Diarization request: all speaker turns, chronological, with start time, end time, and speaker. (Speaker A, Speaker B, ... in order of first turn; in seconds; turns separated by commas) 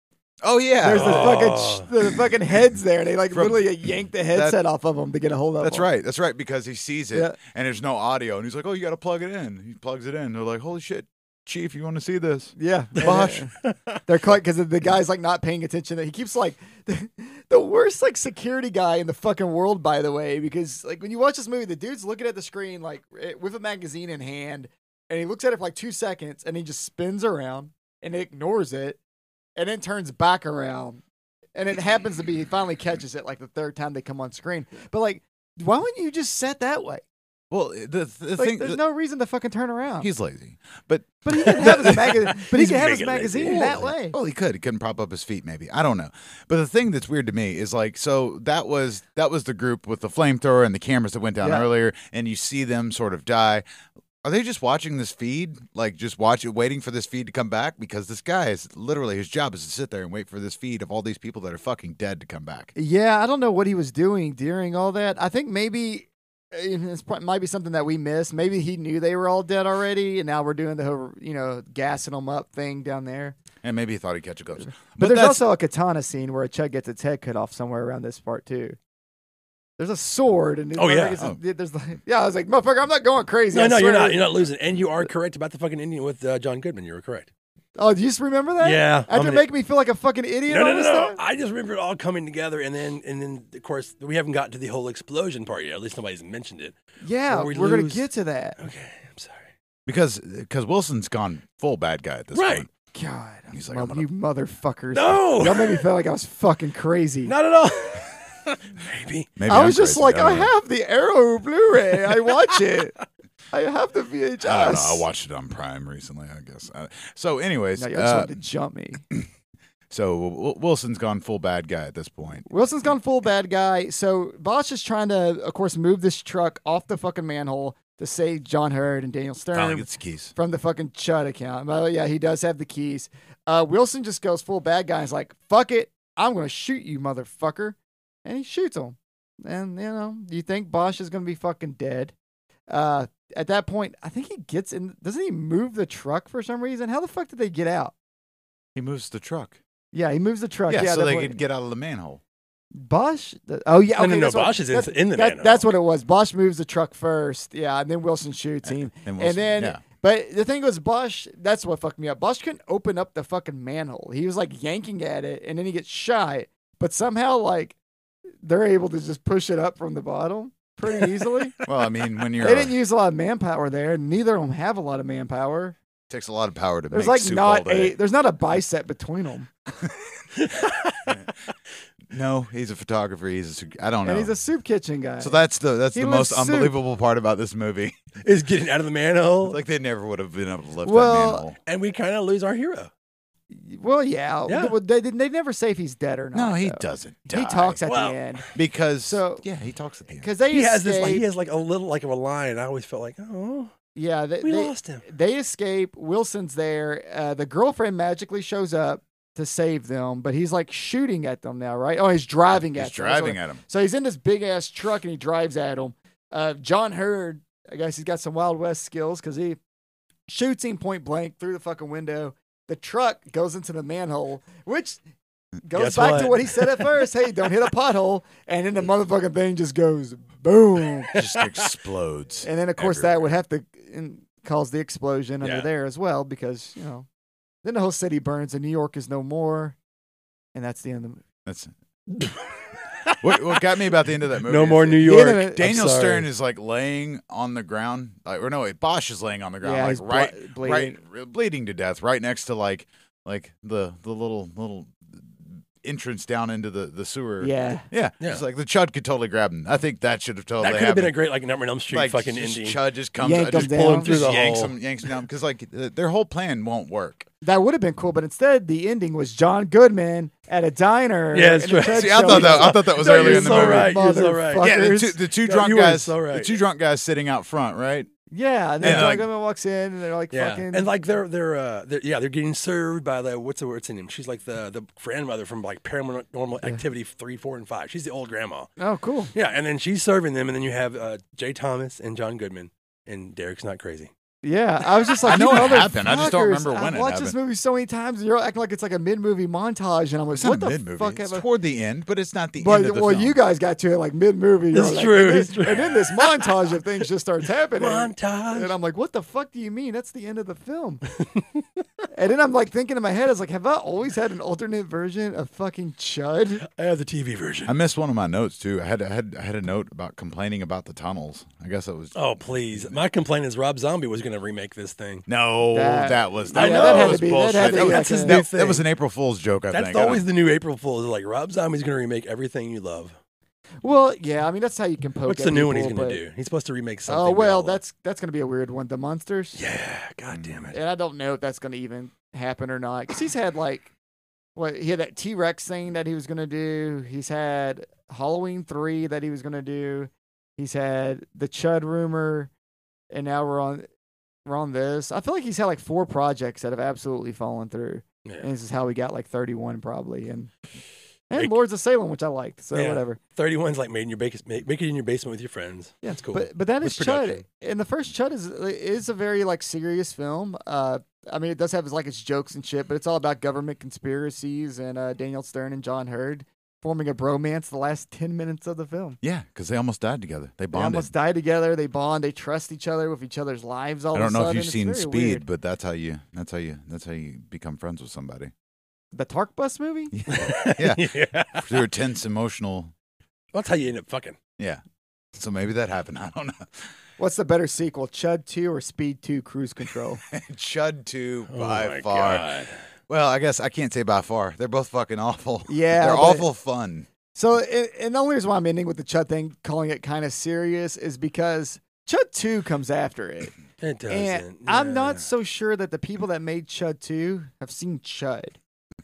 Speaker A: 0.4-1.5, Speaker B: 0.8-5.9, Speaker C: 0.9-1.9, Speaker A: 3.3-3.6, Speaker A: 4.3-4.6, Speaker A: 5.6-13.5, Speaker B: 12.6-13.5, Speaker B: 14.1-29.0, Speaker B: 29.6-31.0, Speaker B: 31.6-37.0, Speaker A: 37.5-38.8, Speaker B: 38.4-40.1, Speaker A: 40.0-42.1, Speaker B: 41.2-44.2, Speaker C: 41.4-43.9, Speaker A: 43.5-53.6, Speaker B: 51.4-51.7, Speaker A: 54.2-62.7, Speaker B: 62.8-73.4, Speaker A: 73.6-75.4, Speaker B: 75.0-78.8, Speaker B: 79.8-84.3, Speaker C: 80.8-81.2, Speaker C: 83.5-87.3, Speaker B: 87.8-91.2, Speaker C: 88.6-89.5, Speaker C: 90.5-96.8, Speaker B: 97.0-98.6, Speaker C: 97.3-98.1, Speaker C: 98.6-99.5, Speaker A: 99.9-102.7, Speaker C: 102.3-102.7, Speaker B: 102.9-107.3, Speaker A: 103.5-104.0, Speaker C: 104.9-105.9, Speaker C: 107.3-109.3, Speaker A: 109.4-110.5, Speaker B: 109.5-112.9, Speaker B: 113.5-115.0, Speaker A: 114.4-118.3, Speaker B: 117.8-119.0, Speaker A: 119.9-122.5, Speaker B: 122.5-142.1, Speaker A: 129.5-130.3, Speaker B: 142.7-147.9, Speaker A: 148.8-149.6, Speaker B: 149.9-151.4, Speaker A: 150.7-152.2, Speaker B: 152.8-167.8, Speaker C: 154.0-155.7, Speaker A: 158.7-159.8, Speaker B: 168.4-171.6, Speaker A: 171.6-172.7, Speaker B: 172.4-175.8, Speaker A: 176.1-178.0, Speaker B: 176.9-179.5, Speaker C: 180.3-181.3, Speaker A: 182.1-184.3, Speaker B: 184.0-185.4, Speaker A: 185.2-188.0, Speaker B: 185.9-186.8, Speaker C: 188.2-189.6, Speaker A: 189.4-191.6, Speaker B: 190.8-191.5, Speaker C: 191.7-192.9, Speaker B: 193.5-198.5, Speaker C: 194.5-194.8, Speaker A: 196.3-197.8, Speaker C: 197.9-198.5, Speaker A: 198.6-200.3, Speaker B: 199.0-199.4, Speaker B: 200.2-201.2, Speaker C: 200.5-203.7, Speaker B: 203.9-219.6, Speaker C: 204.4-205.1, Speaker A: 212.8-213.6, Speaker B: 220.3-225.0, Speaker B: 225.6-231.1, Speaker C: 225.7-226.9, Speaker C: 231.1-231.7, Speaker A: 231.1-233.1, Speaker B: 232.4-237.1, Speaker C: 235.4-235.7, Speaker B: 237.6-239.8, Speaker B: 240.6-241.2, Speaker A: 241.5-241.7, Speaker C: 242.2-246.3, Speaker A: 243.2-261.1, Speaker B: 245.0-245.7, Speaker B: 249.6-251.0, Speaker B: 257.4-257.9, Speaker C: 260.6-262.8, Speaker A: 261.9-267.3, Speaker B: 263.2-264.2, Speaker C: 263.5-264.8, Speaker B: 267.4-275.2, Speaker C: 271.3-274.8, Speaker A: 271.9-274.0, Speaker A: 274.6-278.1, Speaker C: 275.4-276.6, Speaker B: 278.3-280.9, Speaker C: 278.8-279.1, Speaker A: 278.8-279.3, Speaker C: 280.3-288.7, Speaker B: 288.8-289.3, Speaker C: 289.3-294.1, Speaker B: 294.4-301.4, Speaker A: 295.2-297.4, Speaker A: 300.3-303.4, Speaker B: 302.6-311.0, Speaker C: 304.7-306.8, Speaker C: 307.8-308.8, Speaker C: 311.4-311.8, Speaker B: 312.1-316.6, Speaker C: 316.7-317.7, Speaker A: 317.7-323.0, Speaker C: 322.1-325.3, Speaker A: 325.3-330.3, Speaker B: 325.7-328.4, Speaker C: 326.5-328.9, Speaker C: 329.7-333.1, Speaker B: 333.8-336.2, Speaker C: 335.3-337.8, Speaker B: 337.1-339.6, Speaker C: 339.6-340.8, Speaker A: 340.3-340.7, Speaker B: 340.7-343.9, Speaker B: 344.6-352.5, Speaker B: 353.1-353.9, Speaker B: 354.5-360.5, Speaker B: 361.3-363.2, Speaker C: 362.7-367.4, Speaker B: 366.1-379.2, Speaker A: 379.2-381.1, Speaker B: 380.7-385.4, Speaker A: 384.1-388.5, Speaker B: 389.1-390.2, Speaker A: 390.1-392.9, Speaker C: 390.3-391.8, Speaker C: 393.5-394.4, Speaker A: 395.3-396.9, Speaker B: 397.2-400.2, Speaker A: 400.3-407.1, Speaker C: 401.5-402.8, Speaker B: 405.7-406.5, Speaker B: 407.3-413.6, Speaker C: 413.8-415.3, Speaker B: 414.1-418.6